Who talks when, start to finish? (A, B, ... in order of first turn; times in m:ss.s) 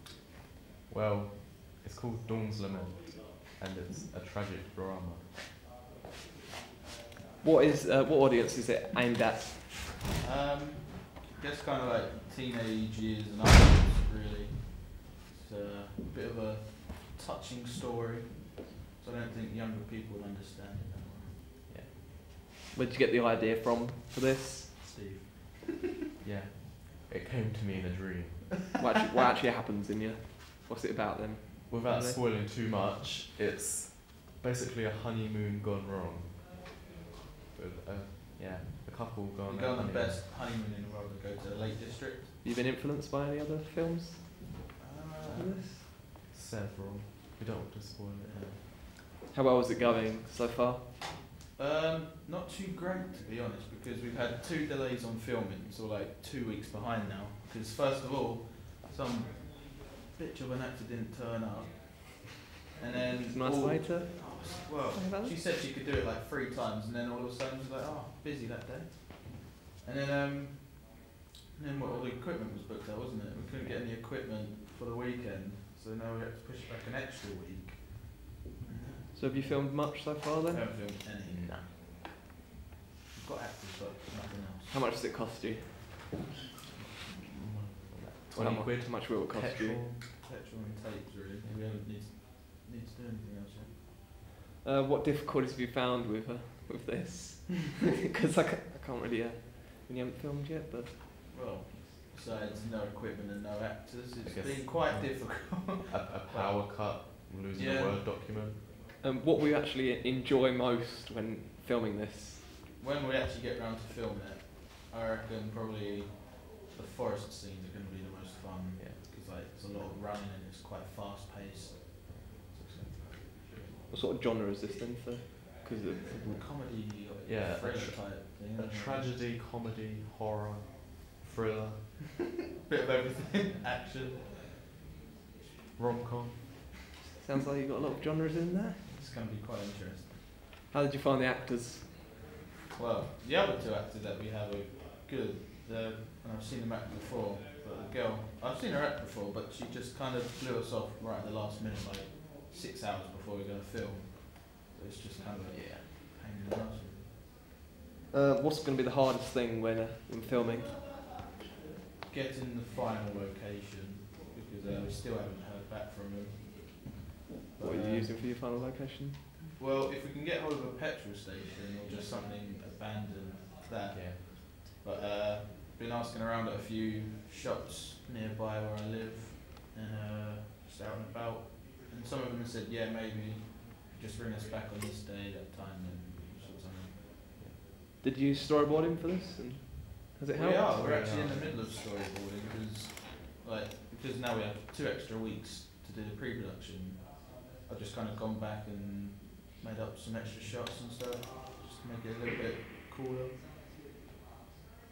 0:00.9-0:05.3 A
0:07.4-0:09.5 B
0:10.2-0:21.4 C
0:22.7-0:25.0 B
0:24.8-0:25.6 C
0:26.2-0:28.5 A
0:28.8-0:32.2 B
0:31.7-0:36.4 A
0:37.5-0:40.2 A
0:39.4-0:42.3 C
0:42.4-0:44.5 B
0:44.8-0:45.6 C
0:45.3-0:45.8 B
0:46.3-0:48.5 A
0:48.2-0:48.7 C
0:49.3-0:50.8 B
0:51.6-1:21.6 C
1:03.2-1:05.4 B
1:13.3-1:13.8 A
1:19.1-1:20.7 B
1:21.2-1:21.7 A
1:23.1-1:24.8 C
1:24.7-1:25.9 B
1:27.2-1:30.0 A
1:28.3-1:29.8 B
1:30.2-1:33.7 C
1:34.6-1:41.0 B
1:41.3-1:47.0 C
1:44.2-1:48.6 A
1:47.5-1:48.0 C
1:49.0-1:52.4 B
1:52.8-2:03.8 C
2:03.9-2:06.4 B
2:06.2-2:09.2 C
2:07.2-2:11.9 A
2:12.7-2:14.5 C
2:15.8-2:16.5 A
2:17.2-2:18.8 B
2:18.8-2:20.3 C
2:20.7-2:21.9 B
2:22.7-2:37.1 C
2:35.5-2:35.9 A
2:38.1-2:40.7 B
2:42.1-2:46.9 C
2:47.5-2:48.3 C
2:47.6-2:49.2 B
2:49.5-3:07.0 C
2:53.9-2:54.2 A
3:08.0-3:10.7 B
3:10.3-3:23.3 C
3:10.7-3:11.6 A